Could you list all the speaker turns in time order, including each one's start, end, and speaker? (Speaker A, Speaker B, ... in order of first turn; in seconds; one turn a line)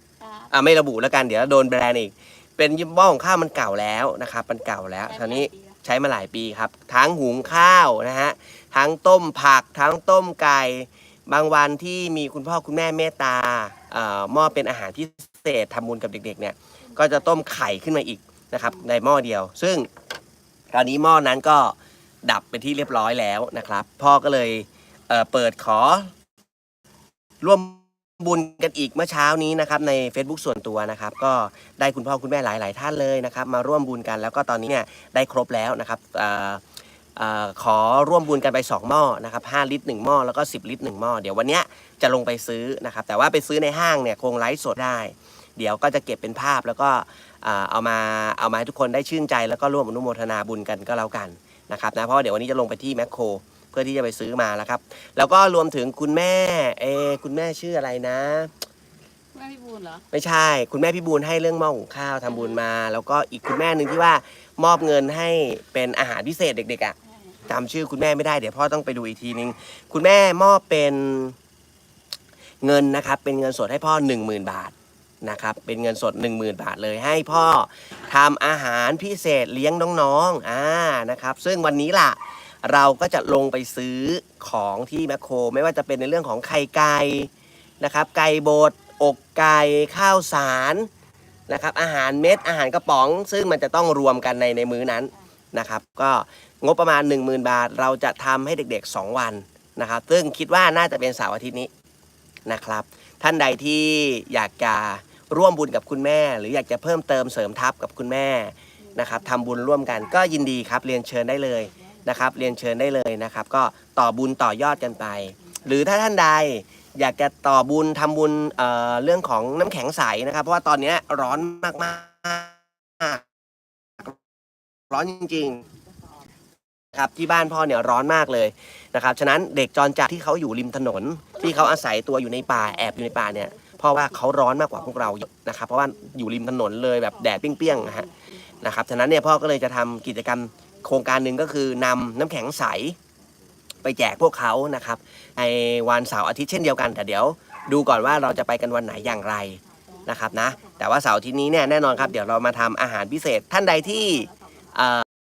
Speaker A: 0.2-0.5
Speaker B: 0.5-19.9
Speaker A: 5.0-5.8
Speaker B: 20.7-26.1
Speaker B: 27.4-36.6
Speaker B: 37.1-58.5
Speaker A: 59.3-60.0
Speaker B: 60.1-66.9
Speaker A: 62.3-62.6
Speaker A: 67.1-67.5
Speaker B: 67.5-71.3
Speaker B: 72.6-90.9
Speaker B: 91.5-101.7
Speaker B: 102.5-123.2
Speaker A: 108.9-109.3
Speaker B: 124.9-125.6
Speaker B: 126.9-138.1
Speaker A: 137.4-138.5
Speaker B: 138.6-142.9
Speaker B: 143.8-155.0
Speaker A: 149.7-150.3